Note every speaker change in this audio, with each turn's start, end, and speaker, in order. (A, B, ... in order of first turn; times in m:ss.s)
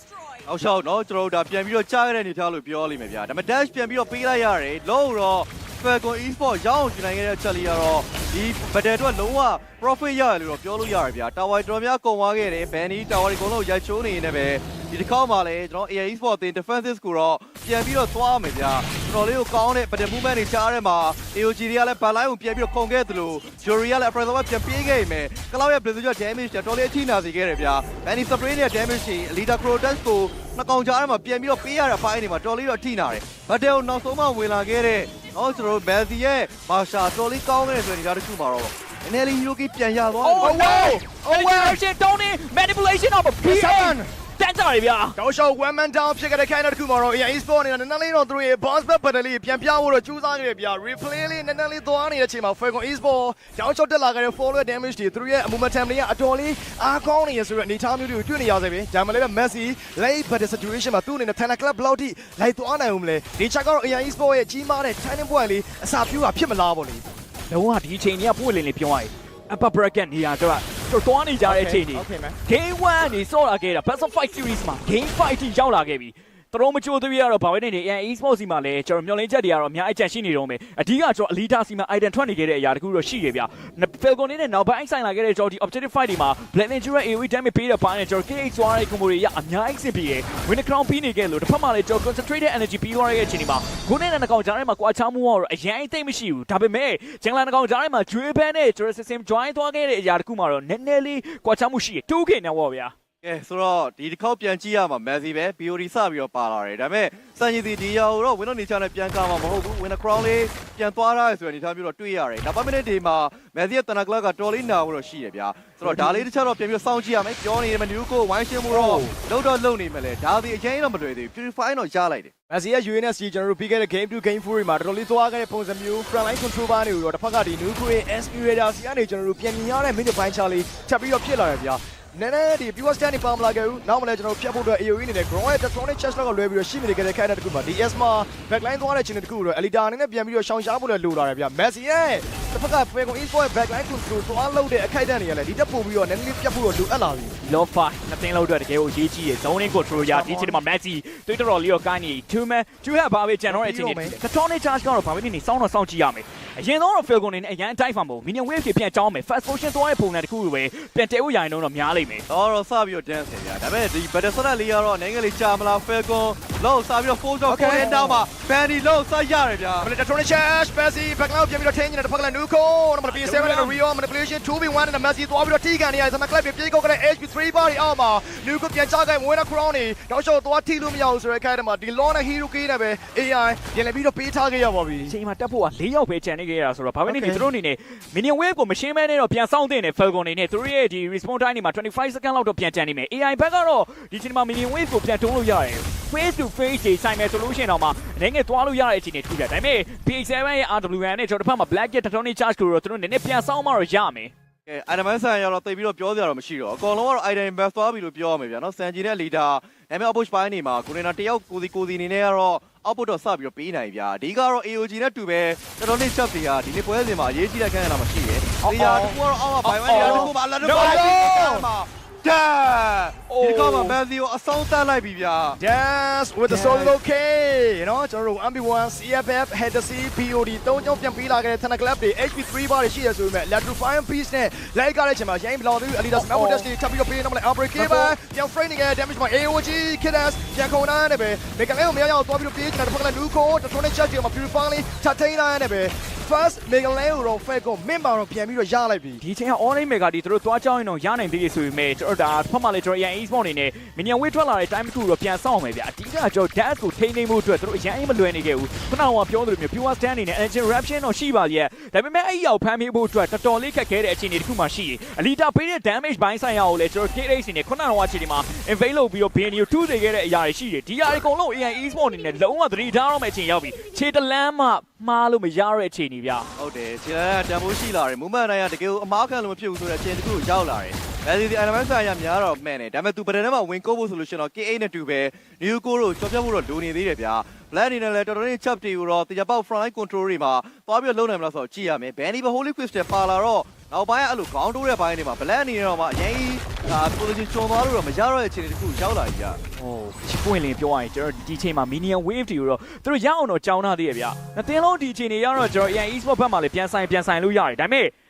0:00.5-0:40.7 A
0:40.2-0:45.2 B
0:40.4-0:41.8 C
0:43.4-0:44.1 C
0:45.2-1:07.0 C
1:07.5-1:42.9 B
1:11.4-1:12.4 C
1:43.2-2:02.3 A
1:55.8-1:56.2 C
1:58.7-1:59.1 C
2:02.5-2:27.4 C
2:27.4-2:42.2 B
2:30.0-2:30.6 C
2:33.5-2:34.2 C
2:42.3-2:49.9 A
2:47.5-2:48.3 C
2:49.8-3:05.1 C
2:53.1-2:53.8 B
3:05.1-3:24.3 B
3:07.1-3:07.5 C
3:24.7-3:45.6 A
3:38.6-3:41.3 B
3:39.8-3:41.7 C
3:43.3-3:44.0 B
3:45.6-4:09.2 C
3:46.5-3:47.0 B
3:56.2-3:56.7 B
3:57.8-3:58.1 B
4:09.2-4:36.5 B
4:36.6-4:59.6 A
4:59.8-5:08.1 B